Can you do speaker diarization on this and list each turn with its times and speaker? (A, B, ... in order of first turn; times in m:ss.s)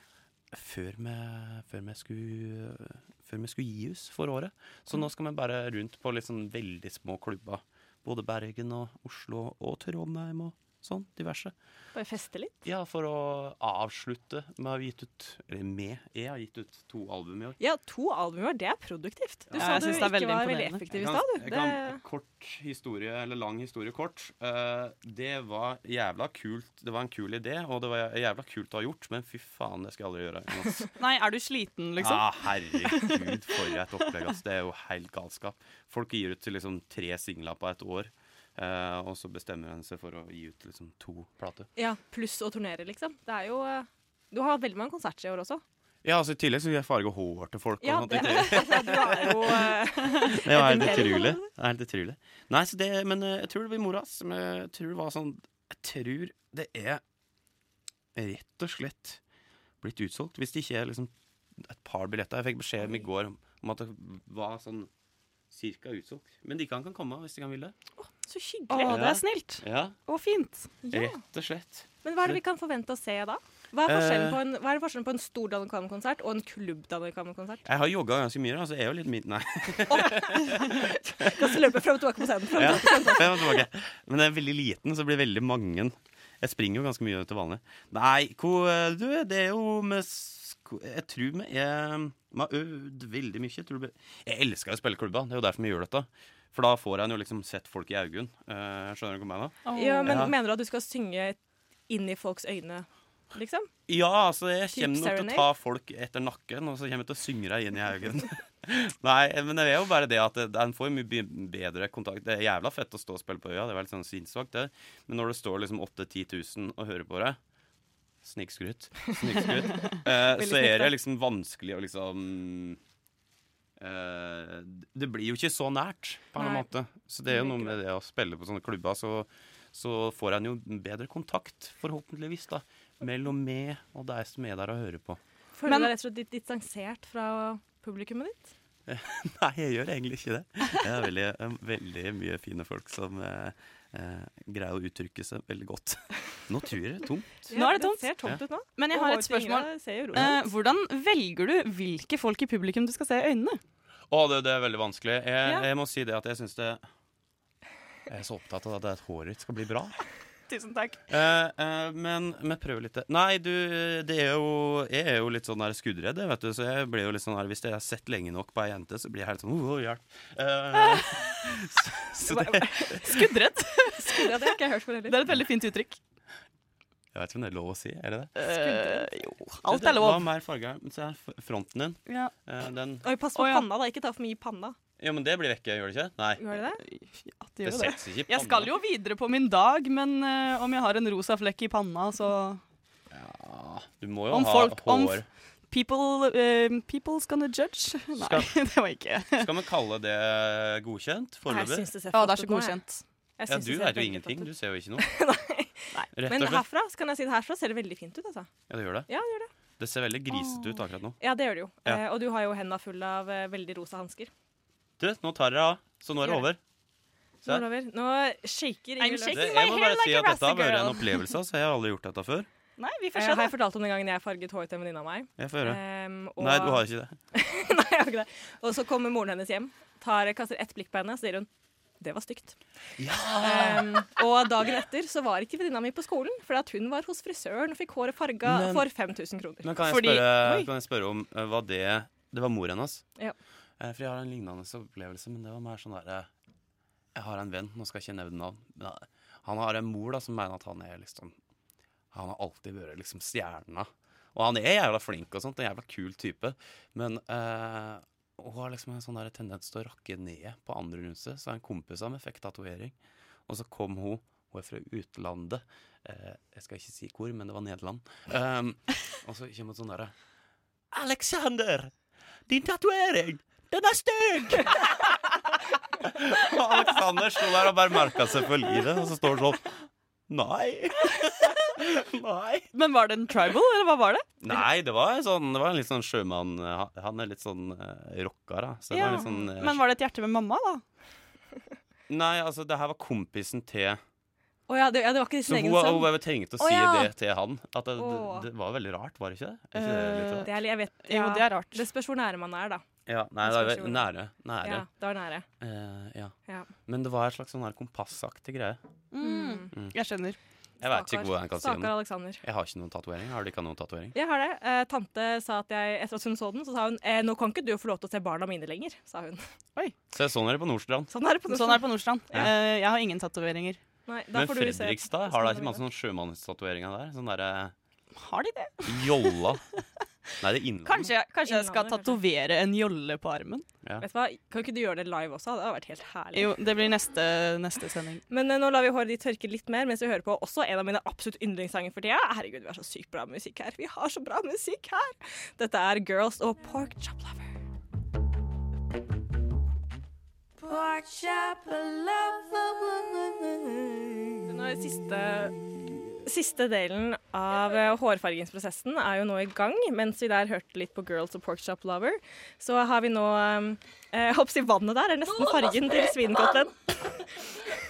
0:00.5-0:11.5 A
0:11.9-0:12.6 B
0:12.6-0:17.6 A
0:17.6-0:22.0 B
0:19.5-0:20.1 A
0:19.6-0:21.1 C
0:20.9-0:30.8 A
0:31.0-0:33.7 C
0:32.0-0:41.7 A
0:41.8-0:45.6 B
0:46.0-0:57.0 A
0:47.8-0:51.4 B
0:58.1-0:59.2 A
0:59.8-1:04.9 A
1:05.5-1:07.7 A
1:08.0-1:09.0 B
1:08.7-1:10.7 C
1:08.8-1:10.0 A
1:10.8-1:11.2 B
1:10.9-1:12.4 A
1:12.0-1:17.6 B
1:13.8-1:14.4 A
1:17.6-1:21.6 A
1:19.9-1:23.6 B
1:22.5-1:40.3 A
1:39.6-1:40.2 C
1:39.7-1:43.7 B
1:43.9-1:57.4 A
1:44.7-1:45.5 B
1:58.2-2:02.8 A
1:59.3-2:00.9 B
2:03.8-2:15.2 A
2:06.4-2:06.6 B
2:07.3-2:07.7 B
2:15.5-2:18.5 B
2:15.7-2:15.9 C
2:18.9-2:27.5 A
2:27.5-2:30.4 B
2:27.5-2:28.2 C
2:28.8-2:33.6 C
2:34.1-2:36.8 A
2:38.1-2:40.0 A
2:40.5-2:41.0 C
2:41.1-2:53.0 A
2:50.9-2:51.3 C
2:52.3-2:53.3 B
2:53.0-2:54.6 C
2:53.9-2:55.2 B
2:55.1-2:56.0 C
2:57.1-2:58.3 A
2:58.4-3:00.3 C
2:58.4-2:59.1 B
2:59.7-3:03.0 A
3:02.1-3:02.3 C
3:03.0-3:04.8 B
3:03.4-3:03.6 C
3:05.0-3:06.4 A
3:06.4-3:06.8 B
3:06.8-3:12.6 C
3:07.6-3:08.7 A
3:13.1-3:15.2 A
3:14.3-3:19.6 C
3:18.2-3:18.5 A
3:19.3-3:21.9 A
3:21.5-3:22.8 B
3:22.1-3:23.0 C
3:23.4-3:28.5 B
3:23.5-3:25.0 A
3:26.1-3:26.6 A
3:28.7-3:29.1 A
3:29.1-3:29.5 B
3:29.8-3:31.2 A
3:30.3-3:30.8 C
3:31.2-3:34.3 B
3:35.0-3:36.6 A
3:37.4-3:39.4 B
3:39.0-3:41.2 C
3:39.3-3:42.5 A
3:42.8-3:43.5 C
3:43.2-3:46.8 B
3:45.4-3:45.8 A
3:46.4-3:47.2 A
3:47.3-3:51.5 B
3:52.0-3:52.6 B
3:53.0-3:54.0 A
3:53.4-3:59.8 B
3:58.4-3:58.9 A
3:59.6-4:03.0 A
3:59.8-4:00.6 C
4:03.8-4:06.3 A
4:07.1-4:11.3 A
4:12.1-4:22.9 A
4:23.5-4:30.1 A
4:30.9-4:31.9 A
4:32.5-4:39.7 A
4:40.3-4:42.7 A
4:42.7-4:44.3 C
4:44.4-4:49.8 A
4:48.9-4:50.8 C
4:52.1-4:54.0 A
4:54.7-4:57.1 B
4:55.4-5:00.5 A
4:58.0-4:58.5 B
4:59.7-5:01.8 C
5:00.4-5:02.8 B
5:03.1-5:04.8 A
5:03.4-5:04.1 B
5:04.6-5:05.4 B
5:05.6-5:06.3 A
5:06.9-5:08.8 A
5:09.1-5:10.4 C
5:09.2-5:09.7 B
5:10.8-5:12.4 B
5:10.8-5:14.1 A
5:14.1-5:19.4 B
5:20.1-5:21.1 A
5:21.1-5:21.9 B
5:21.5-5:23.8 C
5:24.1-5:25.8 B
5:24.3-5:27.7 A
5:28.2-5:29.4 C
5:28.8-5:29.6 A
5:30.4-5:31.1 A
5:30.8-5:33.6 C
5:31.4-5:32.2 B
5:34.0-5:36.5 B
5:36.3-5:38.2 C
5:38.3-5:47.6 B
5:50.7-5:52.9 C
5:54.4-5:55.5 B
5:56.2-6:07.2 B
6:05.5-6:05.9 C